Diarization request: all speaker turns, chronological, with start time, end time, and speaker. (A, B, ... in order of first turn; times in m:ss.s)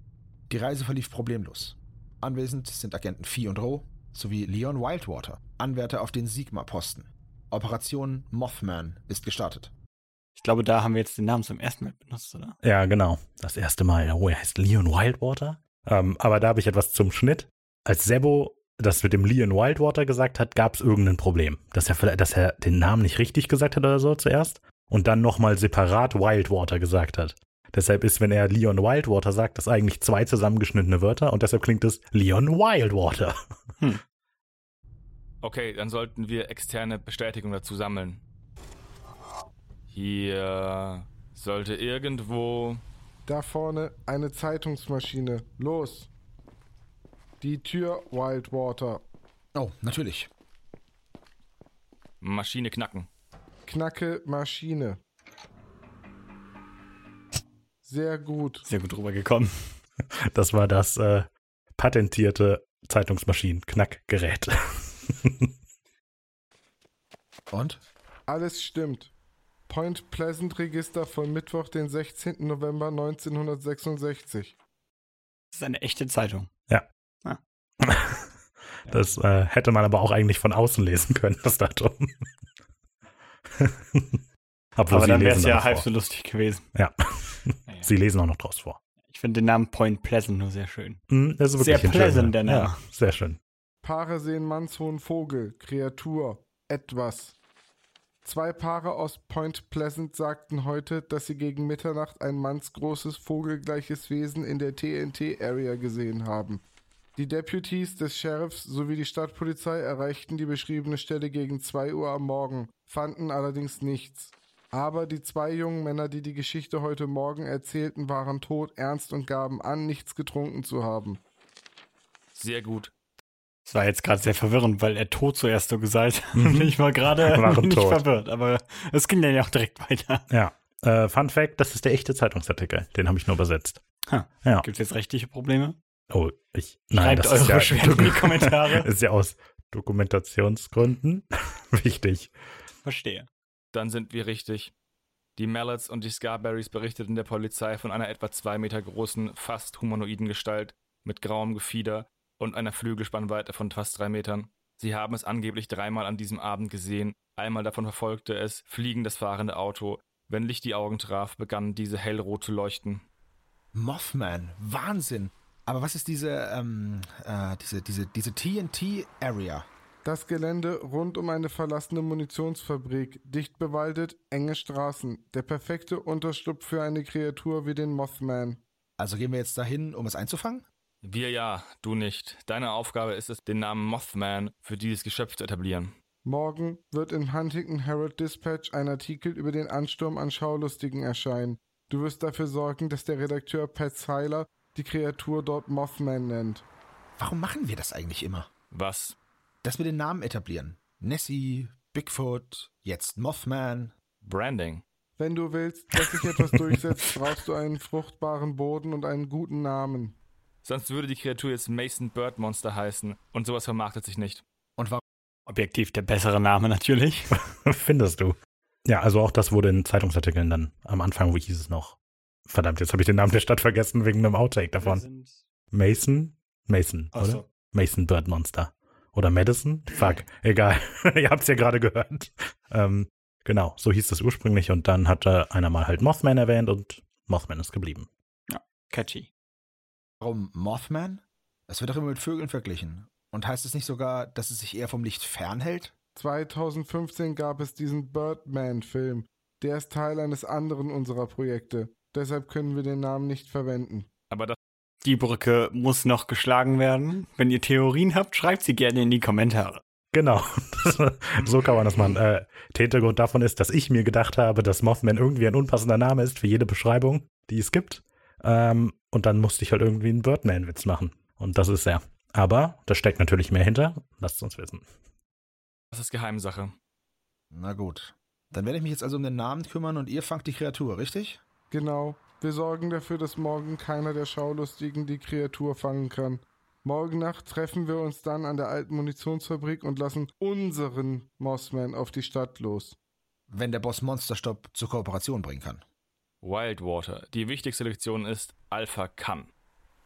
0:00.5-0:09.7 A
0:10.4-0:12.6 B
0:12.6-0:33.4 C
0:35.4-0:38.2 D
0:39.9-0:42.8 D
0:43.3-0:46.1 E
0:47.4-0:49.0 E
0:49.5-0:50.3 A
0:52.2-0:53.1 D
0:53.7-0:55.0 E
0:57.8-0:58.6 E
0:58.6-0:59.7 B
1:00.3-1:05.5 C
1:07.5-1:07.8 A
1:08.3-1:09.1 E
1:09.7-1:14.5 E
1:15.5-1:16.5 B
1:17.8-1:18.3 C
1:18.8-1:19.2 B
1:18.9-1:22.1 C
1:23.6-1:24.2 C
1:24.8-1:25.9 C
1:24.9-1:26.7 B
1:26.7-1:28.8 C
1:27.6-1:27.9 B
1:29.0-1:31.0 B
1:31.1-1:33.4 C
1:31.5-1:32.8 B
1:33.8-1:37.3 E
1:38.2-1:46.6 E
1:47.2-2:01.2 E
2:02.4-2:02.9 D
2:03.6-2:10.2 B
2:06.3-2:08.0 C
2:10.3-2:13.8 C
2:14.1-2:15.8 B
2:16.1-2:22.3 C
2:16.9-2:18.9 B
2:22.8-2:23.3 B
2:23.7-2:24.7 D
2:25.4-2:43.0 D
2:43.7-2:49.7 A
2:50.0-2:58.6 E
2:59.0-3:00.7 A
3:01.0-3:05.9 D
3:06.2-3:16.6 E
3:17.2-3:18.5 A
3:18.7-3:19.2 D
3:19.6-3:23.9 A
3:24.2-3:24.8 D
3:25.2-3:30.2 E
3:30.6-3:34.4 D
3:34.8-3:35.0 A
3:35.5-3:37.3 B
3:37.5-3:45.0 C
3:44.8-3:45.4 B
3:45.7-3:58.1 C
3:47.1-3:47.4 B
3:58.5-3:59.3 B
4:00.2-4:05.9 A
4:06.2-4:14.1 E
4:15.0-4:19.8 B
4:20.1-4:34.8 C
4:35.9-4:36.7 D
4:37.5-4:41.4 A
4:41.7-4:53.0 E
4:53.5-4:55.8 A
4:56.4-4:59.5 D